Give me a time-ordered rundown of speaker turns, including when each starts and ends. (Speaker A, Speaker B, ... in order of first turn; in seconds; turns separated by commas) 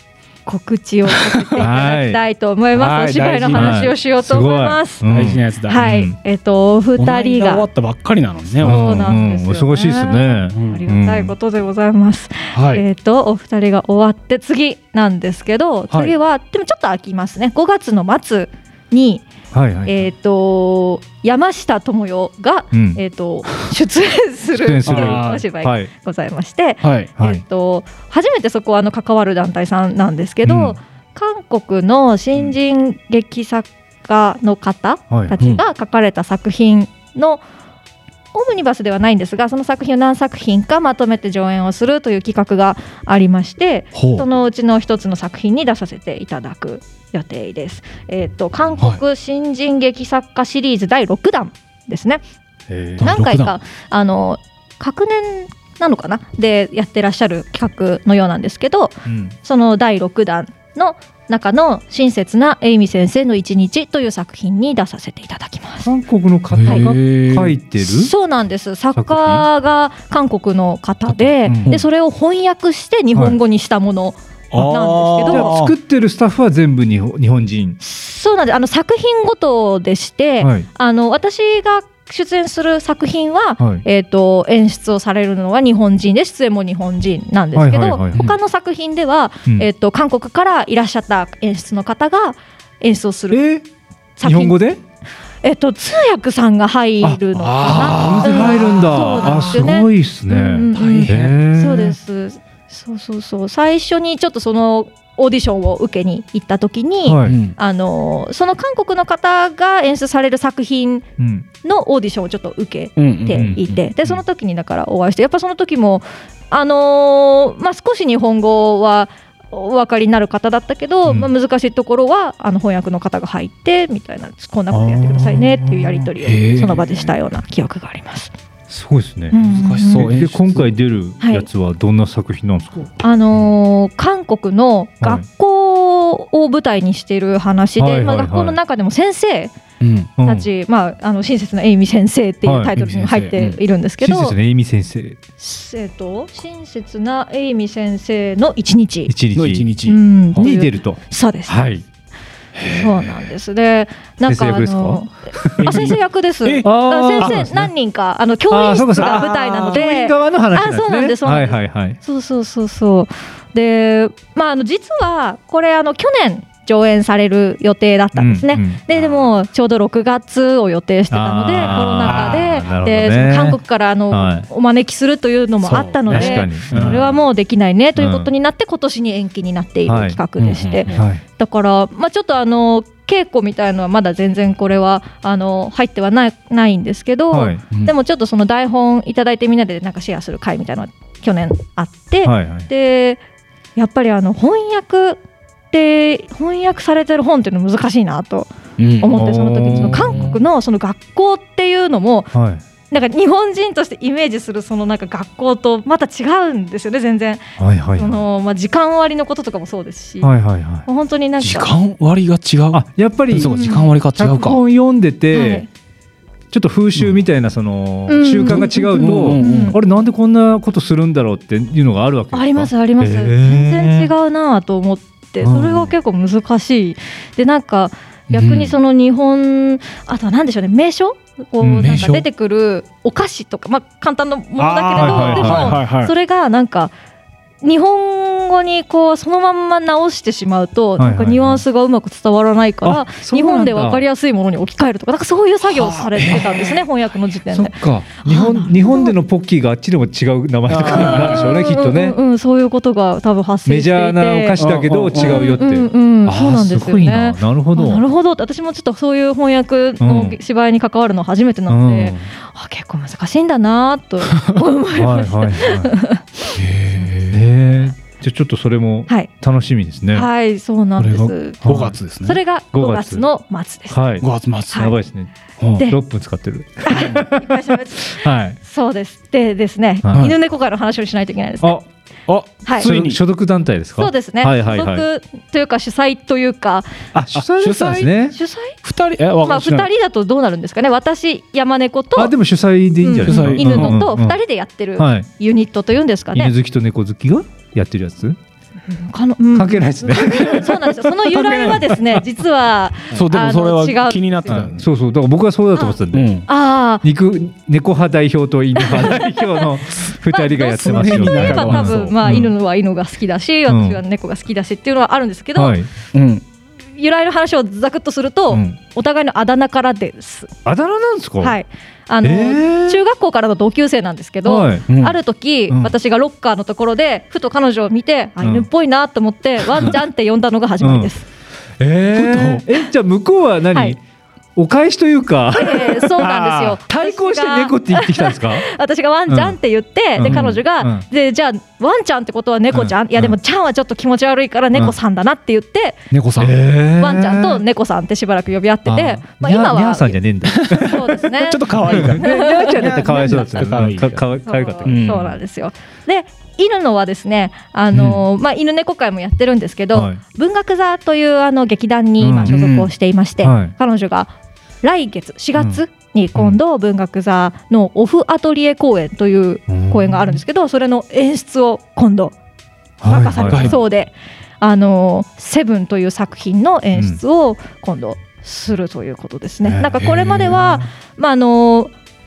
Speaker A: 0.5-5.1, Speaker B: 1.1-1.6, Speaker C: 1.6-2.2, Speaker B: 2.8-3.9, Speaker C: 3.5-6.2, Speaker B: 5.1-5.8, Speaker A: 5.7-7.7, Speaker B: 7.0-9.1, Speaker A: 8.6-19.3, Speaker C: 8.6-11.3, Speaker B: 10.5-10.8, Speaker B: 12.5-12.8, Speaker C: 19.5-20.1, Speaker A: 19.9-37.4, Speaker C: 22.7-23.0, Speaker C: 24.5-25.9, Speaker B: 24.9-25.4, Speaker B: 26.8-27.1, Speaker C: 27.2-27.4, Speaker C: 30.4-30.8, Speaker C: 35.1-35.4, Speaker A: 38.3-52.2, Speaker B: 44.0-44.2, Speaker C: 52.7-53.1, Speaker A: 53.0-65.9, Speaker B: 53.0-53.5, Speaker C: 59.1-59.4, Speaker C: 65.8-68.1, Speaker B: 66.5-67.5, Speaker A: 67.8-75.6, Speaker C: 69.0-69.5, Speaker B: 71.5-71.8, Speaker B: 74.5-75.7, Speaker C: 75.3-77.8, Speaker A: 77.8-93.4, Speaker C: 80.4-80.7, Speaker C: 87.5-88.3, Speaker C: 93.3-93.6, Speaker A: 94.2-94.6, Speaker C: 94.2-94.8, Speaker A: 95.4-111.1, Speaker C: 97.0-102.0, Speaker B: 97.4-99.7, Speaker B: 100.7-101.3, Speaker C: 107.0-107.4, Speaker B: 107.2-107.5, Speaker C: 111.2-111.5, Speaker A: 111.6-128.3, Speaker B: 113.0-113.6, Speaker C: 113.3-114.2, Speaker C: 124.7-126.1, Speaker B: 126.2-127.1, Speaker C: 128.7-129.4, Speaker A: 129.3-130.2, Speaker B: 129.4-130.7, Speaker C: 129.9-132.9, Speaker A: 131.2-131.5, Speaker A: 133.0-139.5, Speaker C: 137.8-138.6, Speaker B: 139.8-140.1, Speaker C: 140.2-140.5, Speaker A: 140.2-144.4, Speaker C: 142.5-142.9, Speaker B: 142.8-143.6, Speaker C: 144.0-145.2, Speaker A: 145.4-149.1, Speaker C: 149.1-149.7, Speaker B: 149.3-150.5, Speaker A: 149.8-151.6, Speaker C: 150.4-151.8, Speaker B: 152.6-153.3, Speaker A: 152.7-193.2, Speaker C: 154.2-156.0, Speaker B: 155.6-157.5, Speaker C: 156.6-157.7, Speaker C: 158.5-162.0, Speaker B: 159.0-159.8, Speaker C: 168.2-168.8, Speaker C: 171.1-173.6, Speaker B: 172.0-172.5, Speaker C: 174.1-174.5, Speaker B: 175.6-177.1, Speaker C: 176.1-177.2, Speaker C: 178.0-178.3, Speaker C: 179.9-180.2, Speaker B: 180.4-181.0, Speaker C: 180.9-181.2, Speaker C: 187.3-187.6, Speaker C: 192.2-192.7, Speaker A: 193.8-195.2, Speaker A: 195.7-202.3, Speaker B: 198.8-199.1, Speaker C: 199.1-200.4, Speaker B: 199.7-200.4, Speaker C: 202.3-202.6, Speaker A: 202.9-207.4, Speaker C: 207.6-208.2, Speaker A: 208.0-210.3, Speaker C: 210.2-210.9, Speaker A: 210.9-211.7, Speaker B: 211.4-214.6, Speaker C: 212.7-215.7, Speaker A: 213.4-213.9, Speaker A: 215.3-215.7, Speaker C: 216.5-224.1, Speaker A: 218.1-219.8, Speaker B: 218.5-219.8, Speaker A: 222.3-236.9, Speaker C: 225.4-225.9, Speaker B: 228.3-228.7, Speaker C: 231.6-232.2, Speaker B: 231.8-232.2, Speaker B: 234.6-236.1, Speaker C: 235.0-235.8, Speaker A: 237.6-249.1, Speaker C: 241.0-241.6, Speaker C: 242.8-244.0, Speaker B: 245.7-246.8, Speaker C: 247.5-252.2, Speaker B: 250.7-251.4, Speaker A: 250.9-266.5, Speaker C: 253.7-258.0, Speaker B: 254.6-255.6, Speaker C: 260.0-260.4, Speaker C: 261.7-262.3, Speaker C: 264.9-266.0, Speaker B: 266.5-267.4, Speaker C: 267.3-270.3, Speaker A: 270.1-274.0, Speaker B: 271.0-272.4, Speaker C: 271.6-271.9, Speaker C: 272.7-273.3, Speaker C: 273.9-278.6, Speaker B: 274.2-274.8, Speaker B: 275.6-275.9, Speaker A: 276.8-281.8, Speaker C: 280.1-280.3, Speaker B: 282.3-283.2, Speaker C: 282.8-285.1, Speaker A: 284.0-286.9, Speaker C: 287.1-288.4, Speaker B: 287.3-288.1, Speaker A: 288.3-288.8, Speaker B: 288.8-289.9, Speaker A: 289.4-292.3, Speaker C: 292.1-294.4, Speaker A: 293.0-296.5, Speaker B: 293.2-294.0, Speaker C: 295.0-295.3, Speaker C: 296.3-298.4, Speaker A: 298.9-304.7, Speaker C: 299.6-301.1, Speaker B: 301.3-301.8, Speaker C: 301.9-302.2, Speaker B: 303.1-304.8, Speaker C: 304.5-306.5, Speaker A: 305.8-307.0, Speaker B: 306.1-306.4, Speaker C: 307.0-312.5, Speaker A: 308.8-315.8, Speaker B: 310.8-312.1, Speaker C: 313.7-314.0, Speaker C: 315.6-315.9, Speaker B: 316.1-316.4, Speaker A: 317.0-320.5, Speaker C: 318.5-318.8, Speaker C: 320.6-321.6, Speaker A: 321.4-331.3, Speaker C: 322.2-323.0, Speaker C: 324.4-324.9, Speaker B: 324.9-325.2, Speaker C: 328.4-328.7, Speaker C: 330.8-331.1, Speaker C: 331.8-334.0, Speaker B: 332.1-332.6, Speaker C: 334.6-336.3, Speaker A: 335.5-346.0, Speaker B: 336.2-336.8, Speaker C: 336.9-338.6, Speaker C: 339.3-339.6, Speaker C: 340.2-341.0, Speaker C: 342.7-343.4, Speaker B: 346.1-346.6, Speaker C: 346.4-347.6, Speaker A: 347.0-350.2, Speaker C: 348.9-351.0, Speaker B: 350.5-354.2, Speaker A: 350.7-353.4, Speaker C: 351.8-355.4, Speaker A: 354.5-372.3, Speaker B: 354.9-355.2, Speaker B: 357.9-358.2, Speaker C: 359.9-360.2, Speaker C: 362.2-362.6, Speaker B: 362.4-362.9, Speaker C: 363.4-363.7, Speaker C: 369.7-370.4, Speaker A: 373.0-381.9, Speaker C: 373.0-373.8, Speaker B: 373.1-373.8, Speaker C: 379.6-380.6